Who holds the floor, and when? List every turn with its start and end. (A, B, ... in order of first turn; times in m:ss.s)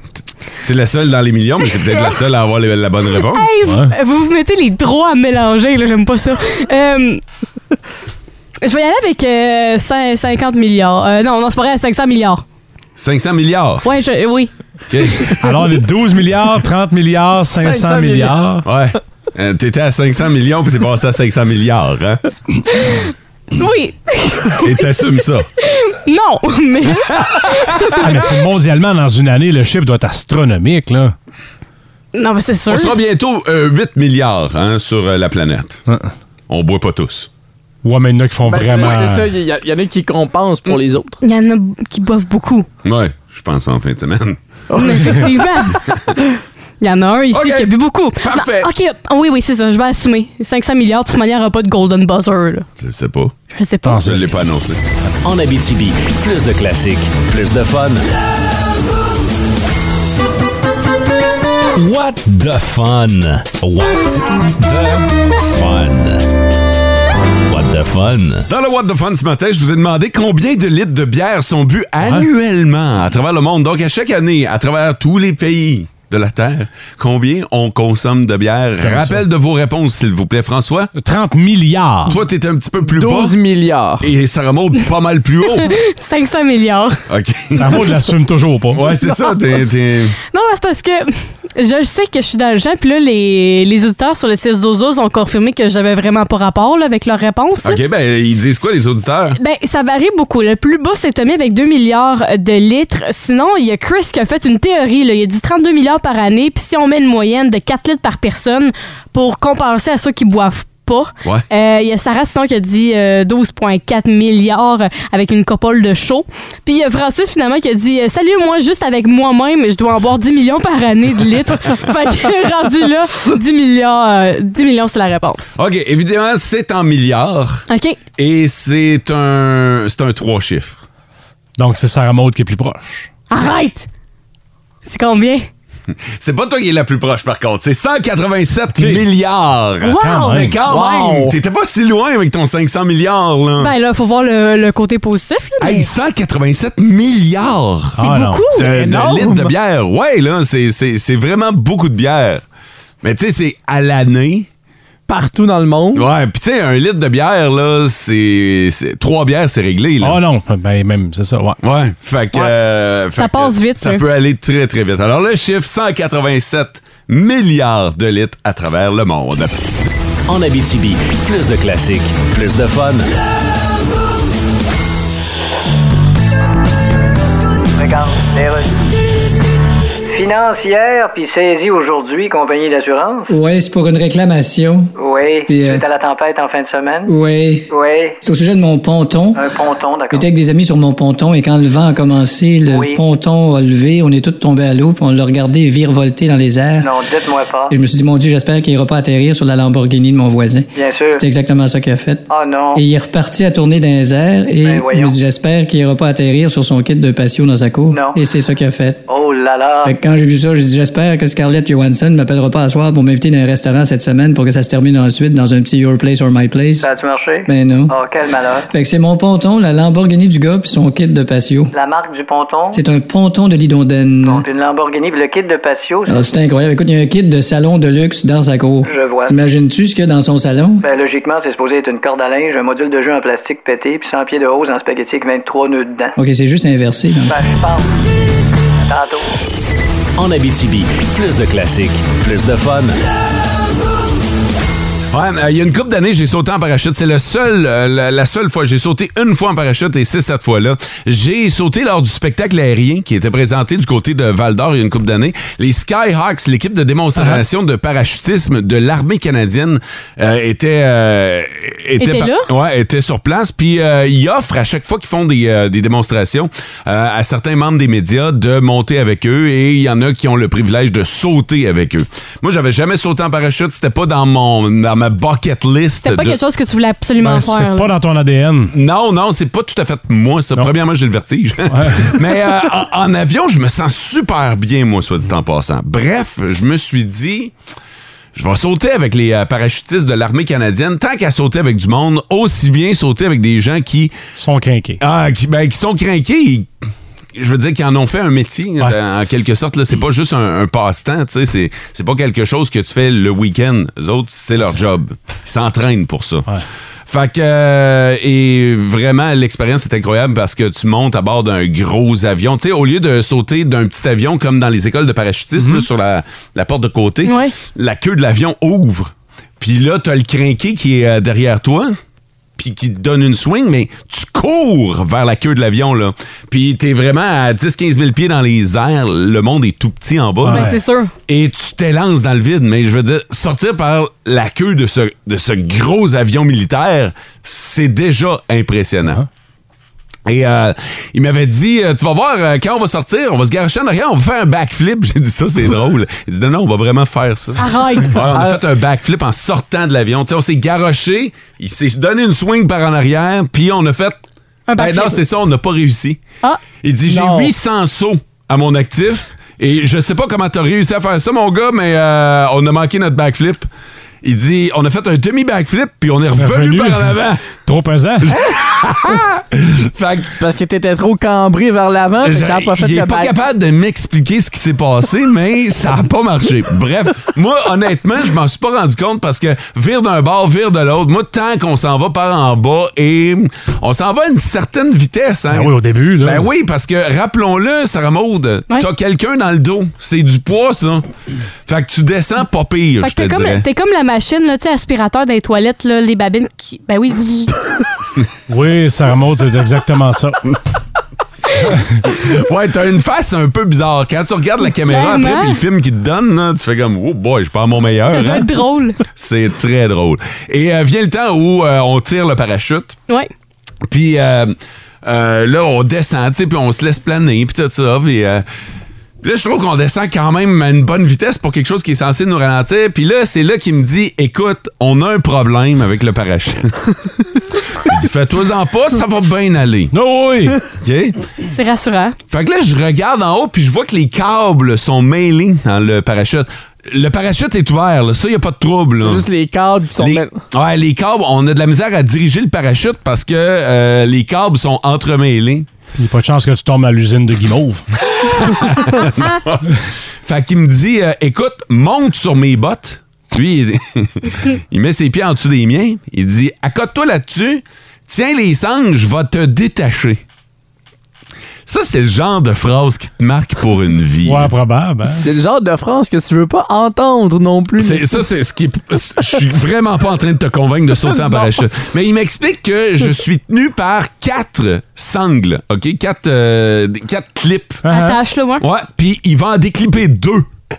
0:00.6-0:03.5 A
0:03.3-0:07.2 B
0:03.6-0:03.9 C
0:08.6-0:12.4 B
0:13.0-0:13.8 A
0:13.8-0:14.5 B
0:14.9-0:15.4 A
0:15.4-0:18.6 C
0:17.4-0:18.5 D
0:18.6-0:22.2 A
0:22.7-0:24.8 B
0:24.6-0:25.5 A
0:25.6-0:28.1 B
0:27.9-0:31.1 C
0:32.1-0:33.0 B
0:32.7-0:35.8 A
0:36.5-0:37.3 A
0:37.8-0:39.3 C
0:38.4-0:41.2 D
0:41.2-0:42.7 B
0:42.8-0:44.4 A
0:44.7-0:45.4 D
0:44.8-0:46.0 B
0:46.8-0:52.6 B
0:47.3-0:48.7 A
0:52.8-0:53.4 A
0:53.5-0:54.1 B
0:53.8-0:54.3 C
0:54.0-0:54.8 A
0:55.2-0:58.1 E
1:01.8-1:06.2 E
1:07.5-1:08.5 E
1:08.5-1:20.9 A
1:12.0-1:12.3 C
1:18.8-1:19.2 C
1:21.0-1:22.1 C
1:22.1-1:23.4 A
1:22.8-1:24.1 D
1:24.0-1:25.8 A
1:25.6-1:27.0 B
1:27.1-1:27.9 A
1:27.5-1:28.8 C
1:28.7-1:30.2 A
1:30.3-1:37.8 B
1:37.6-1:39.4 A
1:39.4-2:05.6 B
2:05.6-2:07.6 A
2:07.7-2:08.0 B
2:08.2-2:10.8 A
2:11.6-2:13.1 C
2:13.3-2:13.9 B
2:14.9-2:15.5 B
2:16.2-2:23.7 A
2:18.8-2:19.0 C
2:19.8-2:20.5 B
2:20.0-2:20.6 C
2:20.6-2:21.4 D
2:23.6-2:25.9 B
2:25.6-2:28.0 A
2:28.0-2:28.5 C
2:28.0-2:28.7 B
2:28.5-2:32.4 A
2:28.7-2:29.5 D
2:33.0-2:34.5 A
2:35.1-2:36.1 D
2:36.0-2:40.2 A
2:40.0-2:41.6 C
2:41.6-2:49.6 A
2:43.2-2:44.0 B
2:50.3-2:53.1 E
2:57.8-2:58.8 F
3:00.1-3:03.3 F
3:03.3-3:04.9 G
3:05.0-3:07.1 F
3:05.5-3:05.8 G
3:07.1-3:09.4 G
3:07.7-3:08.2 F
3:09.4-3:10.3 F
3:10.1-3:16.9 G
3:12.7-3:13.0 F
3:16.8-3:17.7 F
3:17.7-3:29.0 G
3:20.8-3:21.2 F
3:22.3-3:22.8 F
3:24.6-3:25.2 F
3:27.9-3:28.2 F
3:29.1-3:29.9 F
3:29.8-3:36.9 G
3:36.8-3:38.7 F
3:37.5-3:38.0 G
3:38.7-3:41.7 G
3:41.7-3:42.8 F
3:42.7-3:44.4 G
3:44.2-3:46.2 F
3:46.1-3:50.8 G
3:48.8-3:49.4 F
3:50.8-3:56.2 F
3:56.2-3:57.4 G
3:57.2-3:58.0 F
3:58.8-3:59.3 F
4:00.2-4:03.0 E
4:05.1-4:36.4 A
4:17.2-4:17.4 C
4:22.0-4:22.5 B
4:36.0-4:37.9 B
4:37.2-4:38.7 C
4:38.7-4:47.5 A
4:41.7-4:42.2 C
4:48.4-4:54.2 A
4:54.4-4:55.0 C
4:55.0-4:56.7 A
4:57.4-5:06.5 A
5:07.1-5:22.0 A
5:15.6-5:15.9 C
5:17.2-5:17.5 B
5:22.6-5:30.7 A
5:30.4-5:31.1 B
5:30.4-5:30.8 C
5:31.3-5:39.2 A
5:40.2-5:54.2 A
5:47.6-5:48.2 B
5:48.3-5:48.6 D
5:54.7-5:55.2 B
5:54.8-5:56.2 A
5:56.8-6:03.7 A
5:57.1-5:57.5 D
6:04.2-6:07.6 A
6:06.4-6:08.4 C
6:08.2-6:10.3 A
6:10.3-6:13.3 D
6:12.2-6:31.1 A
6:25.5-6:26.5 C
6:31.6-6:33.6 A
6:33.0-6:37.6 B
6:38.5-6:40.4 C
6:41.7-6:42.0 C
6:42.1-6:48.5 A
6:44.8-6:45.6 B
6:48.1-6:49.0 B
6:49.1-6:53.0 A
6:53.9-6:58.5 A
6:59.2-7:07.0 A
7:07.8-7:09.9 A
7:09.9-7:10.6 C
7:10.8-7:11.2 A
7:11.5-7:12.2 B
7:12.3-7:19.2 A
7:19.0-7:20.4 D
7:20.0-7:25.7 A
7:26.0-7:27.8 C
7:28.3-7:29.7 A
7:30.2-7:40.2 A
7:41.7-7:44.5 A
7:44.2-7:45.3 C
7:45.0-7:48.2 D
7:47.8-7:57.8 A
7:57.8-7:58.2 C
7:57.9-7:58.6 B
7:58.6-8:00.5 A